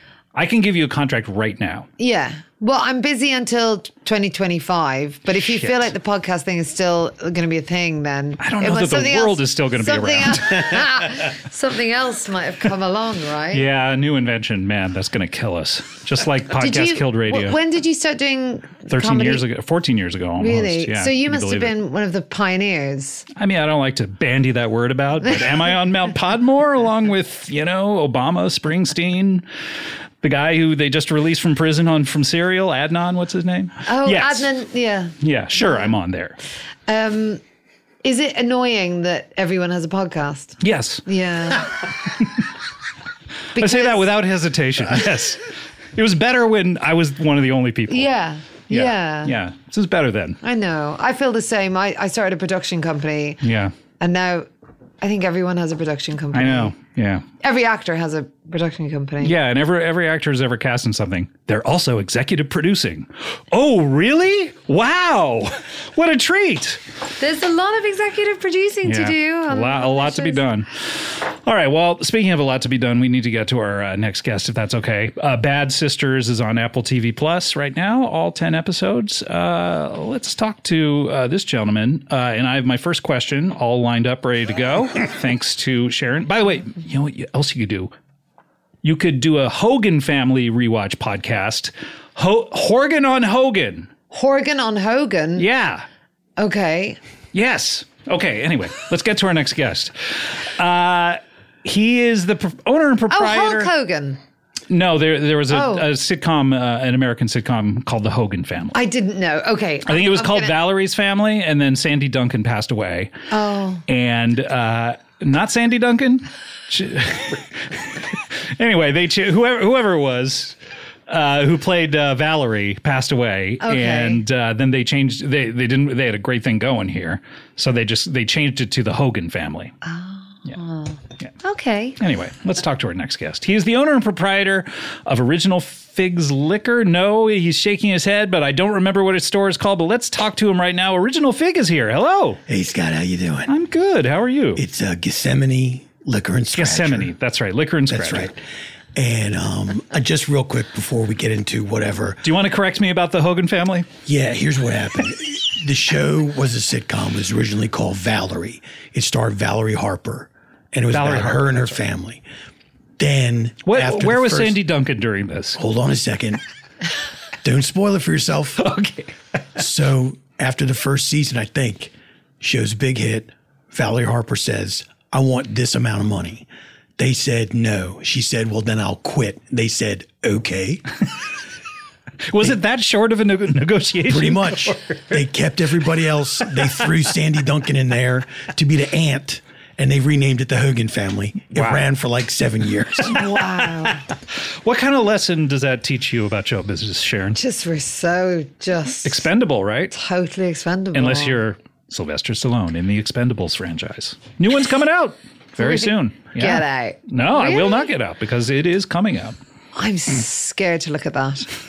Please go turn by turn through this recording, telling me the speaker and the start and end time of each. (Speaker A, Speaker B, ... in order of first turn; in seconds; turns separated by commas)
Speaker A: 0.3-1.9, Speaker B: 2.0-13.6, Speaker A: 5.4-5.9, Speaker A: 8.4-10.9, Speaker A: 13.5-17.6, Speaker B: 16.5-19.4, Speaker A: 18.9-21.8, Speaker B: 20.4-23.2, Speaker A: 23.4-29.4, Speaker A: 30.2-34.5, Speaker B: 33.9-35.9, Speaker A: 35.2-36.4, Speaker B: 36.9-37.4, Speaker B: 38.0-41.7, Speaker A: 40.6-41.0, Speaker B: 43.5-44.0, Speaker A: 43.5-48.1, Speaker B: 47.9-49.3, Speaker A: 48.7-50.4, Speaker B: 50.4-53.4, Speaker A: 53.4-53.7, Speaker B: 54.0-54.5, Speaker B: 55.0-56.7, Speaker A: 56.3-57.2, Speaker B: 57.4-59.4, Speaker A: 59.2-66.8, Speaker B: 67.2-70.4, Speaker A: 68.8-87.9, Speaker A: 88.8-93.9, Speaker B: 94.1-95.5, Speaker A: 95.4-95.8, Speaker B: 96.4-97.0, Speaker A: 97.3-103.7, Speaker B: 103.1-104.2, Speaker A: 104.7-108.8, Speaker B: 105.5-105.9, Speaker B: 108.7-110.5, Speaker A: 109.8-113.1, Speaker B: 113.3-113.8, Speaker A: 113.9-120.5, Speaker A: 121.1-129.7, Speaker B: 123.6-124.2, Speaker B: 129.8-132.0, Speaker A: 132.0-142.4, Speaker C: 142.5-143.5, Speaker A: 143.5-144.6, Speaker C: 144.6-147.1, Speaker A: 146.5-148.3, Speaker C: 147.9-148.4, Speaker C: 148.9-152.2, Speaker A: 152.2-153.9, Speaker C: 154.1-162.2, Speaker A: 160.9-161.8, Speaker C: 163.0-164.6, Speaker A: 163.6-165.6, Speaker C: 165.6-166.4, Speaker C: 167.4-168.6, Speaker A: 168.6-169.1, Speaker C: 169.6-176.5, Speaker C: 177.0-180.9, Speaker A: 182.3-185.2, Speaker C: 184.1-193.2, Speaker A: 191.5-191.8, Speaker A: 193.0-197.4, Speaker B: 193.1-194.0, Speaker B: 197.3-199.3, Speaker A: 199.0-199.9, Speaker B: 199.9-201.4, Speaker A: 200.9-209.4, Speaker B: 205.6-207.9, Speaker B: 209.7-211.5